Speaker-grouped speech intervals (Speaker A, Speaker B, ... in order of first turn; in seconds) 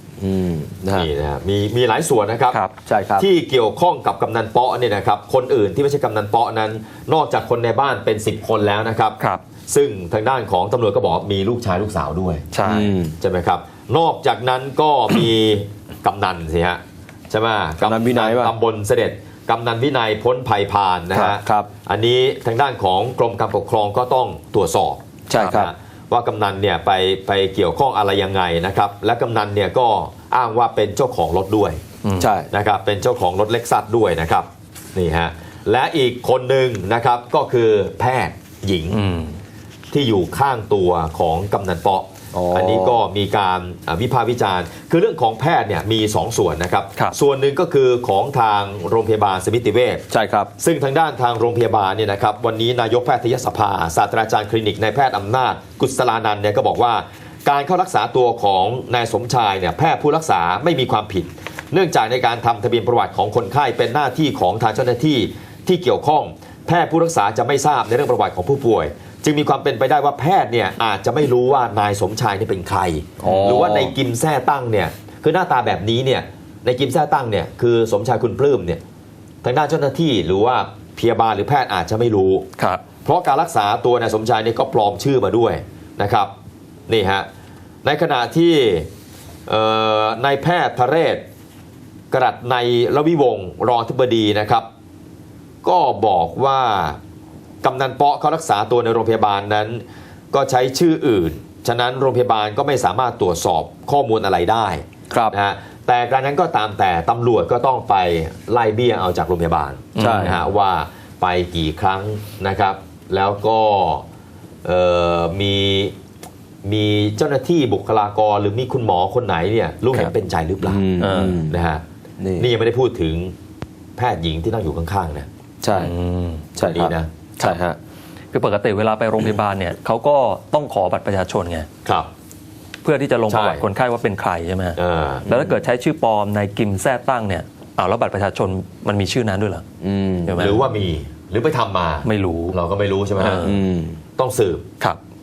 Speaker A: 0.2-1.1, 2.9-3.3, 12.7-13.2, 17.8-18.5, 21.1-21.7, 25.3-25.7, 32.2-32.5, 42.3-43.0, 50.1-50.5, 73.2-74.0, 110.0-110.4, 120.7-121.5, 122.2-122.5, 125.6-125.9, 126.6-127.8, 139.8-140.5, 143.4-144.0
Speaker B: 0.9-2.6, 3.2-12.4, 13.2-31.8, 32.5-39.0, 39.9-50.0, 50.6-78.8, 79.4-82.5, 83.0-86.3, 86.9-87.3, 87.8-88.9, 89.5-91.2, 92.1-94.7, 95.6-97.0, 97.6-114.1, 114.6-115.9, 116.6-120.8, 121.5-121.8, 122.4-123.3, 124.0-125.3, 126.6-127.1, 131.8-132.1, 133.3-133.7, 134.8-135.3, 140.4-143.6, 144.2-144.7
Speaker C: 12.5-12.9, 32.0-32.3, 38.9-39.3, 73.2-73.5, 110.0-110.4, 121.0-121.4, 125.7-126.5, 128.3-131.7, 132.8-139.6, 140.3-140.6, 142.0-142.6, 143.2-143.6